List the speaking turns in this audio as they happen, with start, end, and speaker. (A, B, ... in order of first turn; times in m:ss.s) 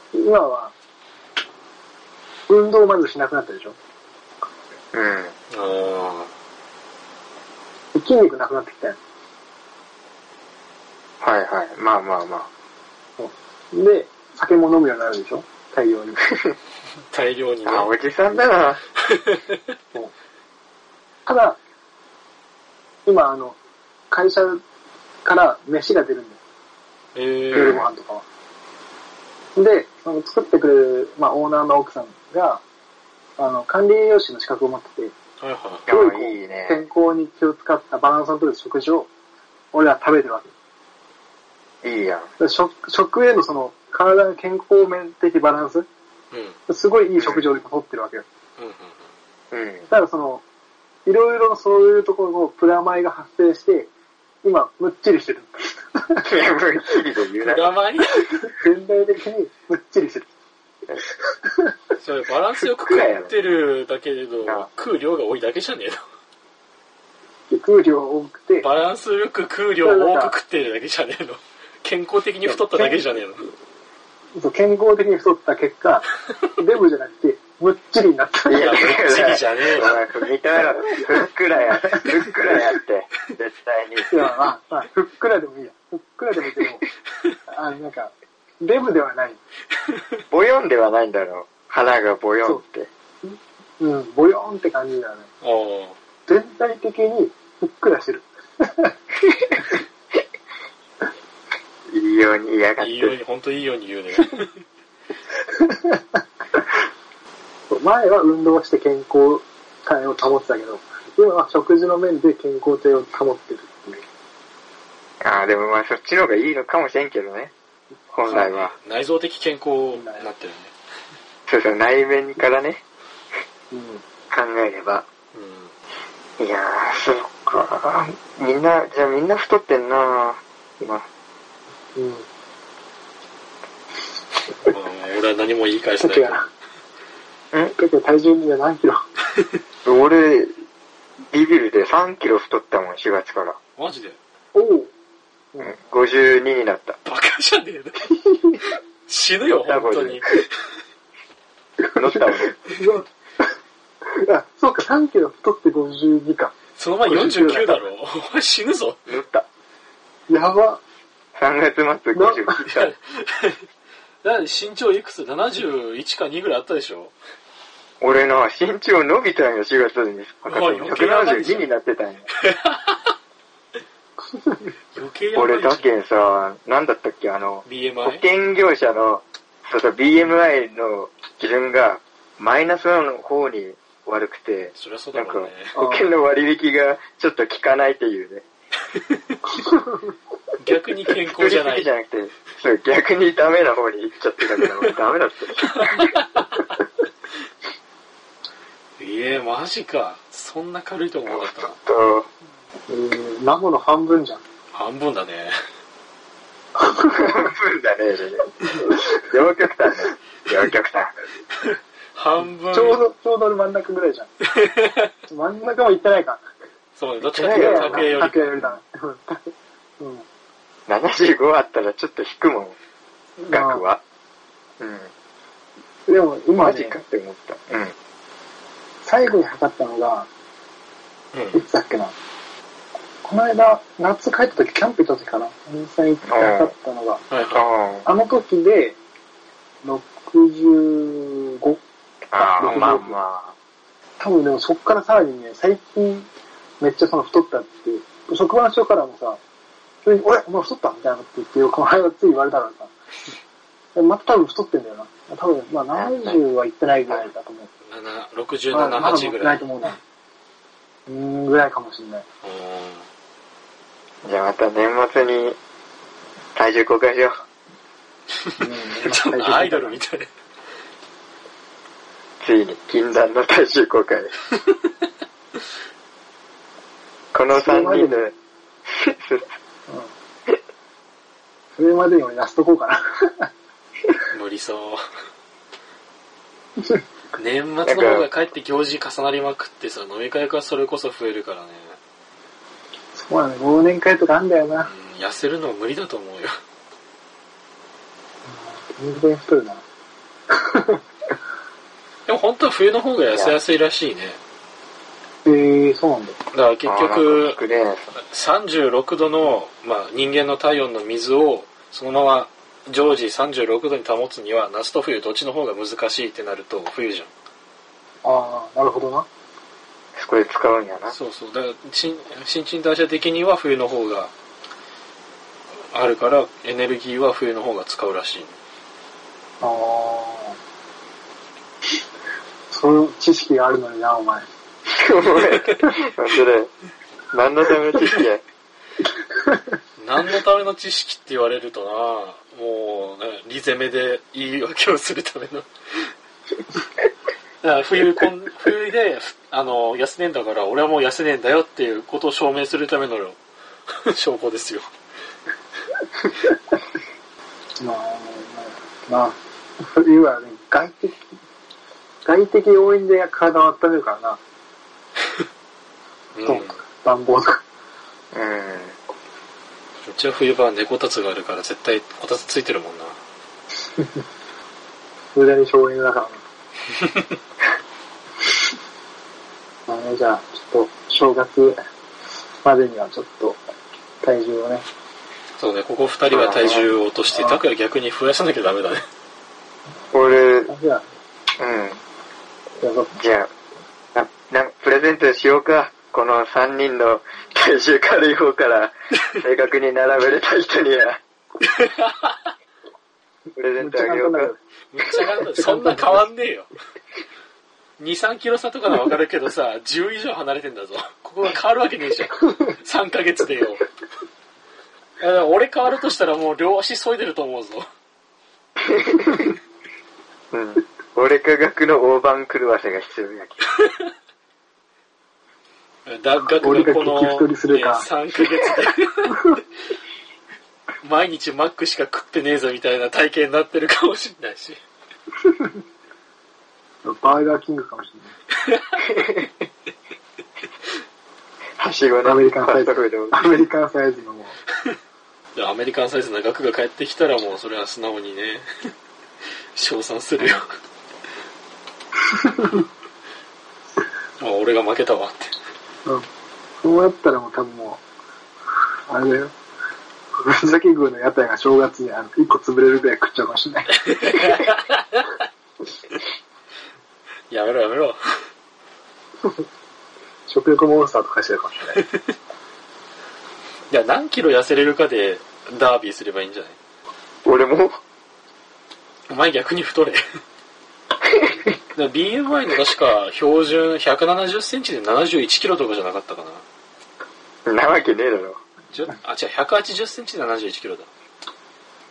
0:00.1-0:00.7 A
0:02.5-0:03.8 A
0:04.9-0:05.3 B
0:05.5-0:06.3 C
0:07.9-0:09.0 A
0:11.2-0:12.5 B
0:13.2-0:16.2 A
0:17.1-0:17.9 C
0:17.6-0:18.8 B
0:19.1-0:19.6 C
0:21.2-0:21.6 A
0:23.0-0:23.6 A
0:24.1-0:24.6 A
0:25.2-0:26.4 A
0:27.1-0:27.8 C
0:27.5-0:27.9 B
0:27.5-0:28.2 A
0:29.5-0:32.6 A
0:33.4-0:35.1 A
0:35.4-0:35.8 C
0:35.9-0:36.8 B
0:35.9-0:39.1 A
0:39.7-0:40.5 A
0:41.8-0:42.3 B
0:42.4-0:45.9 A
0:46.3-0:46.6 C
0:46.7-0:48.2 A
0:47.2-0:47.5 B
0:48.6-0:49.1 C
0:49.5-0:49.9 B
0:49.9-0:50.4 A
0:51.0-0:53.9 A
0:54.4-0:56.2 A
0:56.2-0:57.7 B
0:57.4-0:58.5 C
0:58.5-1:00.3 A
1:01.4-1:01.7 A
1:02.0-1:06.0 C
1:02.6-1:03.3 B
1:04.4-1:04.7 B
1:07.5-1:08.7 A
1:08.6-1:13.4 C
1:09.8-1:10.4 A
1:12.4-1:13.0 A
1:14.3-1:19.0 A
1:18.5-1:24.2 B
1:18.5-1:19.9 C
1:21.9-1:22.6 A
1:24.1-1:26.8 A
1:27.5-1:29.4 A
1:30.3-1:32.9 B
1:33.2-1:35.3 A
1:35.4-1:36.0 C
1:36.2-1:38.9 A
1:41.9-1:43.2 B
1:42.8-1:44.6 C
1:45.5-1:46.0 A
1:47.7-1:54.0 A
1:55.2-1:57.5 B
1:58.1-1:58.7 B
1:58.2-2:00.7 C
1:59.9-2:00.3 A
2:01.5-2:02.8 B
2:03.7-2:04.0 A
2:04.3-2:05.0 B
2:05.3-2:05.7 C
2:06.4-2:11.0 B
2:11.9-2:12.2 A
2:14.6-2:16.4 C
2:16.0-2:16.5 A
2:17.7-2:19.0 A
2:19.8-2:20.5 B
2:21.3-2:23.6 B
2:23.8-2:24.2 C
2:24.5-2:24.9 A
2:25.6-2:27.0 B
2:27.0-2:28.1 C
2:28.2-2:28.6 A
2:29.1-2:30.5 C
2:29.4-2:30.2 B
2:31.9-2:32.6 B
2:32.1-2:33.1 A
2:34.1-2:36.5 A
2:36.8-2:39.0 C
2:37.0-2:37.8 A
2:39.1-2:39.4 B
2:40.3-2:40.8 A
2:41.3-2:42.9 B
2:42.1-2:42.7 A
2:42.8-2:43.6 C
2:44.2-2:47.1 C
2:48.0-2:52.3 B
2:50.5-2:51.7 C
2:52.5-2:53.1 C
2:54.9-2:55.9 C
2:55.3-3:08.4 B
2:57.6-2:58.2 C
3:04.7-3:05.7 C
3:05.7-3:06.1 A
3:09.1-3:09.4 C
3:09.5-3:10.1 A
3:10.6-3:11.9 C
3:11.3-3:16.1 B
3:15.7-3:16.4 C
3:19.0-3:21.8 C
3:21.3-3:22.3 B
3:22.9-3:24.4 A
3:24.7-3:25.5 C
3:26.8-3:27.4 A
3:27.0-3:31.1 B
3:32.1-3:33.0 C
3:32.7-3:34.3 A
3:34.6-3:35.0 C
3:35.2-3:36.4 A
3:37.0-3:38.7 C
3:37.2-3:38.1 B
3:37.4-3:40.2 A
3:40.9-3:42.8 B
3:43.4-3:44.0 B
3:43.5-3:43.8 A
3:44.8-3:45.1 B
3:46.1-3:47.0 A
3:46.6-3:47.9 B
3:49.0-3:50.3 A
3:51.3-3:51.6 C
3:51.5-3:52.1 A
3:53.2-3:57.2 A
3:56.2-3:56.7 B
3:57.3-3:57.6 C
3:57.4-3:58.0 B
3:58.0-3:59.0 A
3:59.8-4:01.8 A
4:02.3-4:03.5 B
4:02.4-4:03.2 A
4:04.2-4:06.3 A
4:06.8-4:09.4 A
4:10.0-4:12.9 A
4:13.9-4:17.7 A
4:15.9-4:16.4 B
4:17.9-4:19.7 C
4:18.7-4:20.0 A
4:21.1-4:22.2 A
4:22.4-4:23.0 C
4:24.2-4:25.6 B
4:26.6-4:27.4 B
4:28.5-4:30.3 C
4:28.6-4:30.0 A
4:32.4-4:34.3 B
4:37.3-4:38.3 B
4:37.5-4:38.3 A
4:38.9-4:39.4 B
4:41.8-4:43.5 A
4:44.3-4:45.0 C
4:47.4-4:52.0 C
4:47.8-4:48.3 B
4:53.1-4:54.9 A
4:54.8-4:56.5 C
4:58.4-4:59.8 A
5:00.5-5:01.0 A
5:02.3-5:04.4 C
5:03.3-5:03.6 B
5:05.4-5:06.4 A
5:06.5-5:07.6 C
5:06.8-5:08.1 B
5:08.2-5:17.3 C
5:18.2-5:19.3 A
5:20.2-5:21.1 B
5:21.1-5:24.3 C
5:25.9-5:28.5 C
5:29.6-5:30.6 A
5:32.7-5:34.5 A
5:34.9-5:36.7 B
5:37.3-5:38.4 B
5:40.0-5:46.1 C
5:47.6-5:53.4 C
5:54.1-5:54.9 C
5:57.8-6:01.2 A
6:02.2-6:04.4 A
6:06.3-6:06.8 C
6:06.4-6:07.6 A
6:08.3-6:09.0 B
6:10.0-6:13.2 C
6:15.3-6:16.4 A
6:19.9-6:21.8 A
6:22.6-6:23.6 A
6:24.2-6:24.8 A
6:25.6-6:29.0 C
6:26.3-6:26.9 B
6:27.3-6:27.6 A
6:30.1-6:30.7 B
6:30.7-6:31.0 A
6:31.6-6:32.0 B
6:32.8-6:33.2 A
6:33.1-6:33.5 B
6:34.1-6:41.2 B
6:41.6-6:42.3 C
6:43.6-6:44.5 B
6:43.8-6:44.6 A
6:44.9-6:46.7 C
6:45.5-6:46.2 A
6:48.0-6:53.9 C
6:55.2-6:57.8 C
6:58.9-6:59.5 B
7:00.5-7:03.7 B
7:06.0-7:09.5 C
7:06.6-7:08.1 A
7:11.0-7:14.8 C
7:15.4-7:15.7 A
7:17.0-7:18.3 A
7:18.7-7:19.0 C
7:19.0-7:19.5 B
7:21.8-7:23.6 B
7:22.2-7:24.5 A
7:25.5-7:28.6 C
7:29.7-7:30.7 C
7:32.3-7:32.8 A
7:34.4-7:35.5 C
7:36.8-7:38.0 A
7:39.1-7:39.5 A
7:40.3-7:44.5 A
7:44.1-7:45.3 C
7:47.5-7:48.2 C
7:50.5-7:52.0 A
7:53.9-7:56.8 C
7:57.4-7:58.0 B
7:59.3-8:00.2 C
8:01.9-8:06.6 C
8:07.6-8:08.6 B
8:08.9-8:11.1 C